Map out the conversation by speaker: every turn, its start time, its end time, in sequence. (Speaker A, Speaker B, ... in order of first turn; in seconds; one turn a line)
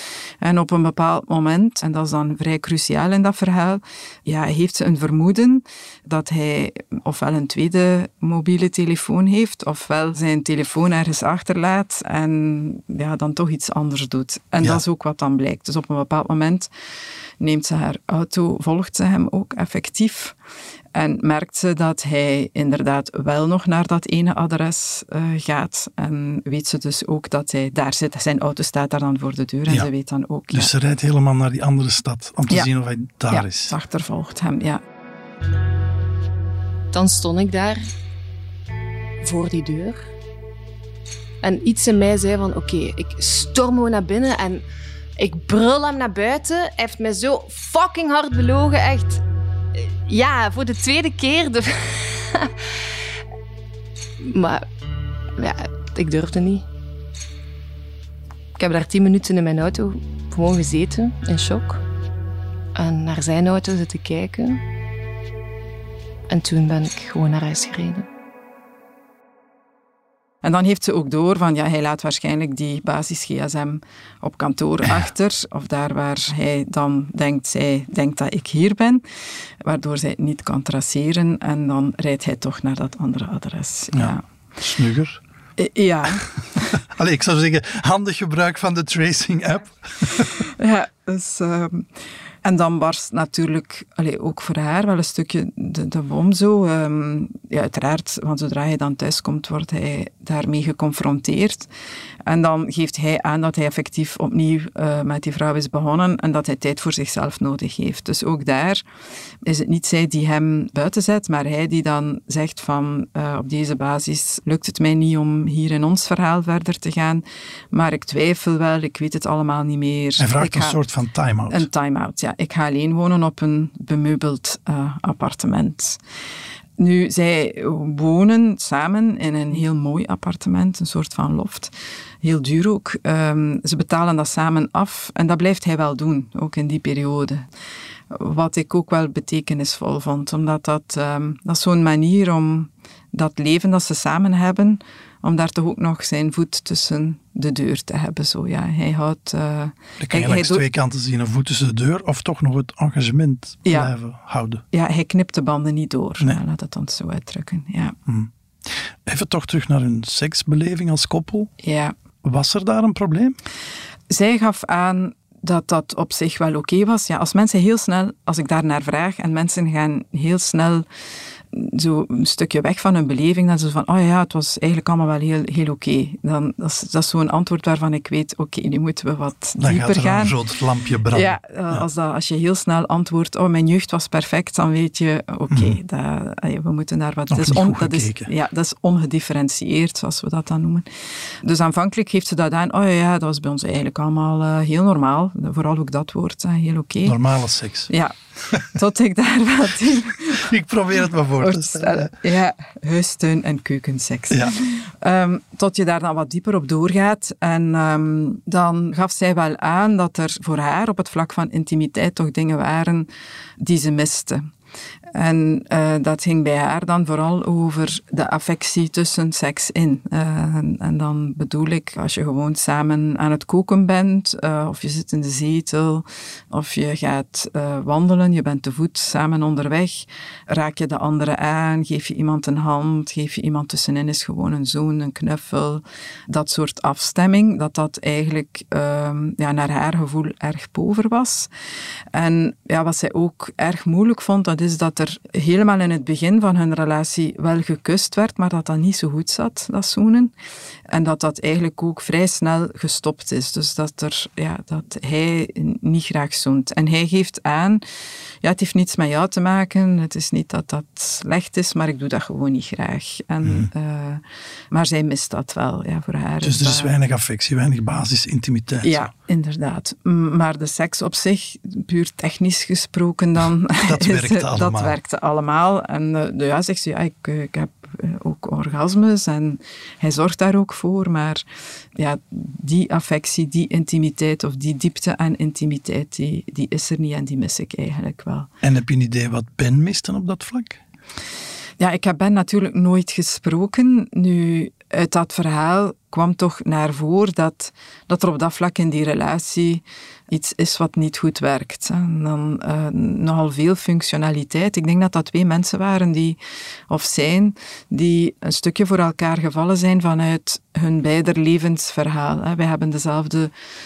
Speaker A: 0.4-16.7
Speaker A: 17.4-20.4
Speaker A: 20.9-30.7
Speaker B: 30.5-33.7
Speaker A: 33.3-34.8
Speaker C: 36.9-37.8
Speaker C: 39.2-40.0
Speaker C: 41.4-44.6
Speaker C: 45.2-49.2
Speaker C: 49.8-52.5
Speaker C: 54.2-54.6
Speaker C: 55.4-56.7
Speaker C: 58.6-61.8
Speaker C: 62.8-64.6
Speaker C: 66.3-68.1
Speaker A: 70.4-79.0
Speaker A: 79.6-84.2
Speaker B: 83.9-85.2
Speaker A: 85.6-86.8
Speaker B: 86.9-90.5
Speaker A: 90.6-91.9
Speaker A: 92.4-101.7
Speaker A: 102.3-108.8
Speaker A: 109.4-120.8
Speaker B: 120.2-121.7
Speaker A: 121.5-126.0
Speaker A: 126.8-137.4
Speaker A: 138.1-150.6
Speaker B: 150.0-154.6
Speaker A: 153.7-153.9
Speaker A: 154.7-157.9
Speaker B: 158.1-161.5
Speaker A: 161.6-161.9
Speaker B: 162.2-163.4
Speaker A: 164.1-170.8
Speaker A: 171.5-180.3
Speaker B: 179.6-181.8
Speaker A: 181.1-190.9
Speaker B: 185.5-185.8
Speaker B: 187.3-188.3
Speaker A: 191.4-197.2
Speaker B: 197.1-197.9
Speaker A: 197.9-200.4
Speaker B: 200.4-202.1
Speaker A: 201.4-213.1
Speaker B: 204.3-204.6
Speaker A: 213.6-214.5
Speaker A: 215.1-241.5
Speaker A: 242.1-250.3
Speaker A: 250.9-257.8
Speaker A: 258.4-266.9
Speaker B: 266.4-269.1
Speaker A: 268.8-281.4
Speaker B: 273.8-274.9
Speaker A: 282.0-288.5
Speaker B: 288.6-290.8
Speaker A: 291.8-306.4
Speaker A: 306.9-313.5